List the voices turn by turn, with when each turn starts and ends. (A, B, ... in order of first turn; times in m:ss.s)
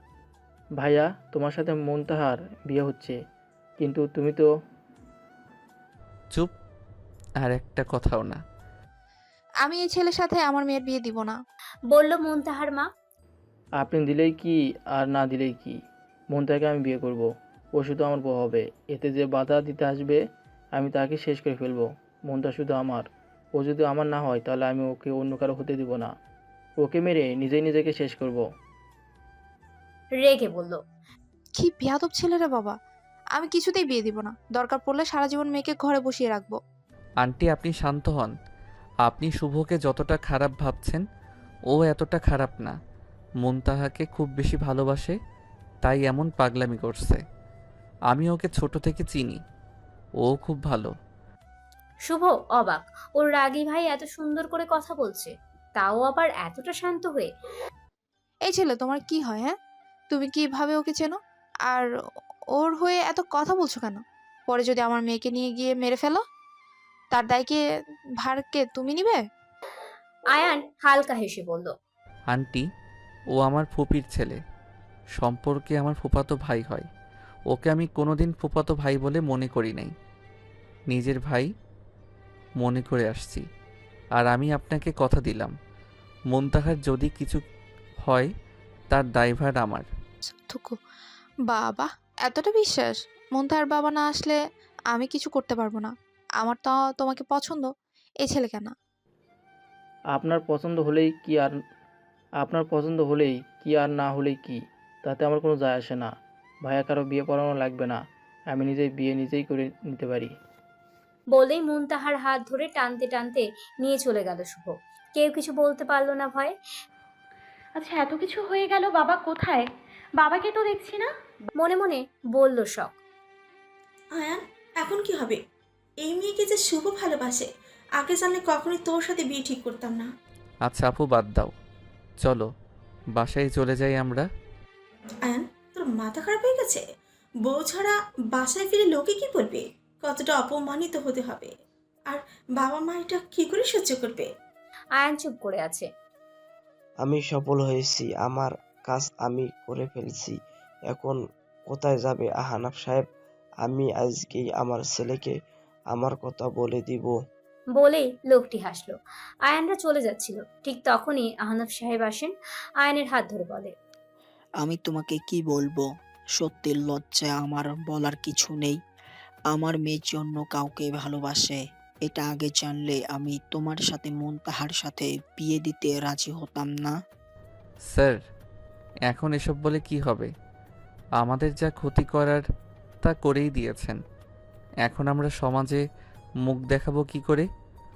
0:00.8-0:03.2 A
0:03.8-0:04.5 A
0:07.4-0:08.4 B
0:09.6-0:11.4 C
0:11.9-0:12.9 D
0:13.8-0:15.8 A
0:16.3-0:20.2 A
0:20.7-0:26.1 A
0:26.8-0:28.4 A
0:30.2-0:30.8 D
0:31.6-0:32.8 C
0:33.3-0:36.6 C
0:37.2-0:38.3 B
0:39.0-0:41.0 B
0:41.7-0:42.7 B
0:43.4-0:45.1 B
0:45.8-0:47.2 B
0:48.1-0:49.4 B
0:50.2-0:50.9 B
0:52.1-0:57.3 D
0:58.4-0:59.5 C
1:00.1-1:01.9 C
1:02.5-1:06.2 C
1:07.1-1:07.6 C
1:08.2-1:09.2 C
1:10.3-1:11.7 D
1:12.3-1:12.6 B
1:13.4-1:14.4 B
1:15.2-1:16.9 B
1:17.5-1:19.9 B
1:20.9-1:21.5 B
1:22.6-1:23.4 B
1:24.2-1:25.5 B
1:26.3-1:27.4 B
1:28.9-1:29.8 B
1:30.5-1:30.8 C
1:31.5-1:34.4 C
1:34.9-1:37.7 C
1:38.2-1:38.7 C
1:40.1-1:41.5 A
1:42.4-1:46.1 A
1:46.6-1:50.3 A
1:51.3-1:56.5 D
1:57.8-1:59.7 E
2:00.2-2:01.1 E
2:01.6-2:02.9 D
2:04.2-2:05.4 F
2:06.0-2:10.1 F
2:10.6-2:11.5 B
2:12.2-2:12.5 B
2:13.2-2:14.2 B
2:15.3-2:16.8 F
2:17.4-2:21.5 F
2:22.1-2:24.3 F
2:25.0-2:25.9 D
2:27.0-2:30.3 G
2:30.9-2:33.1 G
2:33.6-2:35.3 G
2:35.9-2:37.1 G
2:37.8-2:39.0 D
2:39.5-2:43.7 D
2:44.6-2:45.8 H
2:46.4-2:48.8 H
2:49.5-2:56.9 H
2:57.9-2:58.2 B
2:59.1-3:00.3 B
3:01.2-3:02.4 B
3:03.0-3:04.0 B
3:04.8-3:05.8 B
3:06.4-3:07.5 B